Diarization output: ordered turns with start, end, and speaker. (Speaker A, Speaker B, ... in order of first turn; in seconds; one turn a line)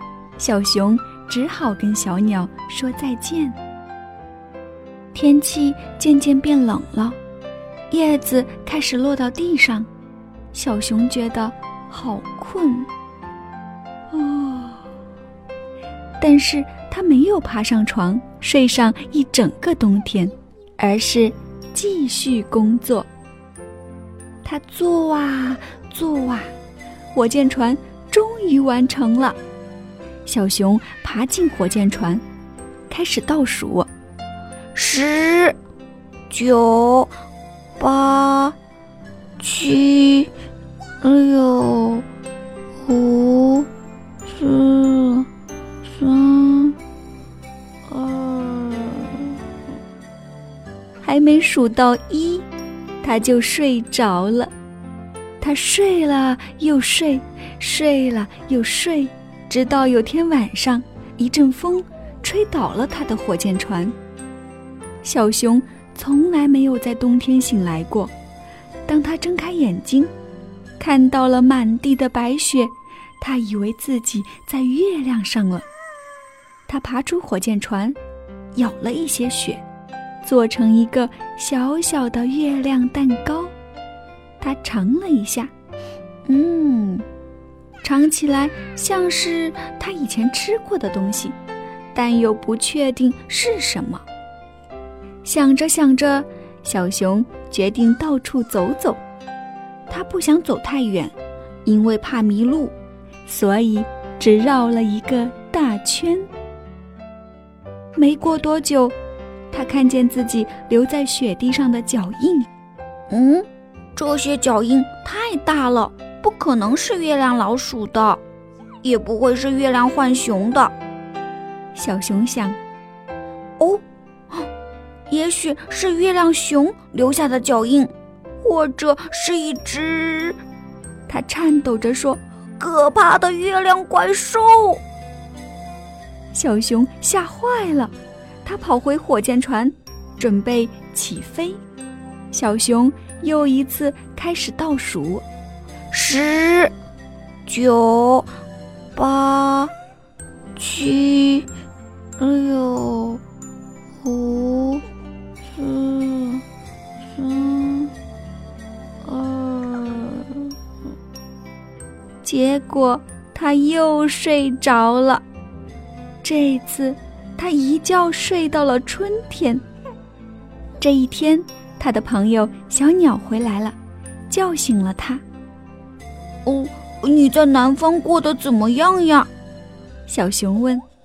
Speaker A: 0.4-3.6
Speaker A: 5.1-7.2
Speaker A: 7.9-9.9
Speaker A: 10.5-12.9
Speaker A: 14.1-14.8
Speaker A: 16.2-23.1
Speaker A: 24.4-26.5
Speaker A: 27.1-29.4
Speaker A: 30.3-32.2
Speaker A: 32.9-33.9
Speaker B: 34.8-35.6
Speaker B: 36.3-37.1
Speaker B: 37.8-38.5
Speaker B: 39.4-40.3
Speaker B: 41.0-42.0
Speaker B: 42.9-43.7
Speaker B: 44.3-45.3
Speaker B: 45.9-46.8
Speaker B: 47.9-49.3
Speaker A: 51.0-52.5
Speaker A: 53.0-54.5
Speaker A: 55.4-64.0
Speaker A: 65.0-68.1
Speaker A: 68.9-70.1
Speaker A: 70.8-75.7
Speaker A: 76.7-78.0
Speaker A: 78.5-79.6
Speaker A: 80.2-83.5
Speaker A: 84.4-85.5
Speaker A: 86.3-87.0
Speaker A: 87.8-91.3
Speaker A: 91.9-94.0
Speaker A: 95.2-99.0
Speaker A: 99.9-101.1
Speaker A: 101.7-102.7
Speaker A: 103.3-106.3
Speaker A: 108.0-109.0
Speaker A: 109.5-112.5
Speaker B: 113.1-118.2
Speaker B: 118.8-120.7
Speaker A: 121.8-122.6
Speaker B: 123.6-124.5
Speaker B: 125.1-127.9
Speaker B: 128.4-130.4
Speaker A: 131.1-132.2
Speaker B: 132.6-134.8
Speaker A: 136.3-137.9
Speaker A: 138.4-141.6
Speaker A: 142.3-145.2
Speaker B: 145.9-146.7
Speaker B: 147.5-148.3
Speaker B: 149.0-149.7
Speaker B: 150.6-151.5
Speaker B: 152.2-153.2
Speaker B: 154.0-154.8
Speaker B: 155.5-156.4
Speaker B: 157.1-157.9
Speaker B: 159.1-160.5
Speaker A: 162.2-165.2
Speaker A: 166.2-169.6
Speaker A: 170.8-173.8
Speaker A: 174.3-175.2
Speaker B: 176.5-179.3
Speaker A: 180.1-180.8